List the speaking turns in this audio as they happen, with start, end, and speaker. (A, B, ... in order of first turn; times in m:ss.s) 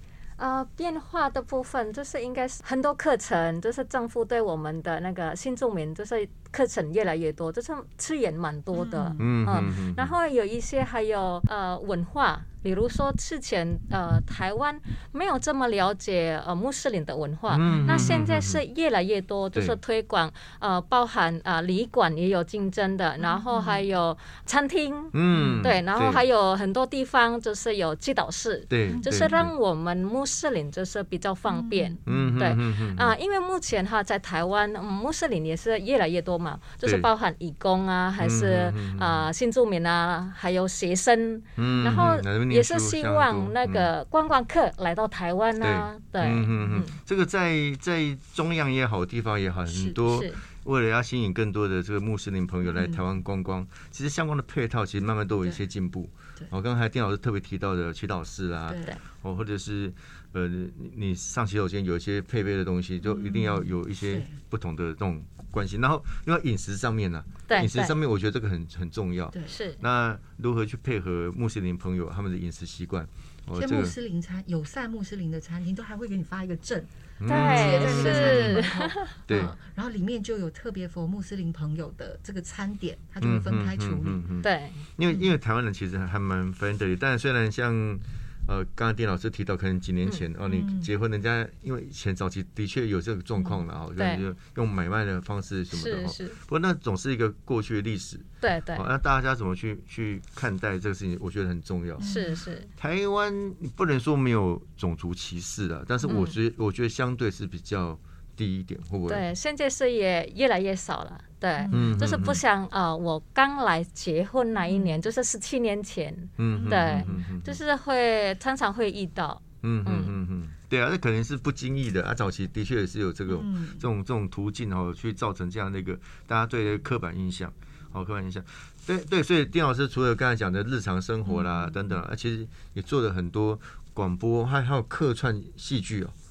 0:00.4-0:47.0 A
0:08.7-0:09.4 B
0:09.2-0:10.1 C
0:17.5-0:18.6 C
0:17.6-0:18.2 B
0:23.2-0:23.8 B
0:25.1-0:26.2 C
0:25.3-0:25.8 B
0:28.7-0:29.5 C
0:28.9-0:29.3 B
0:31.5-0:32.3 B
0:32.1-0:33.1 C
0:38.2-0:39.3 C
0:41.6-0:43.9 C
0:45.6-1:14.0 C
0:49.7-0:50.0 B
0:50.0-0:50.4 A
0:52.6-0:53.0 B
0:58.7-0:58.9 B
1:03.0-1:04.3 B
1:07.5-1:08.0 A
1:09.5-1:09.8 A
1:13.6-1:24.2 B
1:17.2-1:18.7 C
1:17.3-1:19.1 A
1:19.3-1:19.5 C
1:23.2-1:42.1 C
1:24.4-1:24.8 A
1:30.4-1:30.9 B
1:34.0-1:34.2 A
1:35.7-1:36.4 A
1:38.4-1:38.9 A
1:42.0-1:42.4 B
1:42.0-1:42.7 A
1:42.8-1:49.2 C
1:46.0-1:46.4 A
1:49.1-2:00.1 A
1:51.6-1:52.0 B
1:51.7-1:52.4 C
1:54.6-1:54.9 B
1:56.4-1:57.6 C
1:56.6-1:57.2 B
1:59.6-2:16.1 C
2:03.3-2:03.9 B
2:11.2-2:12.0 B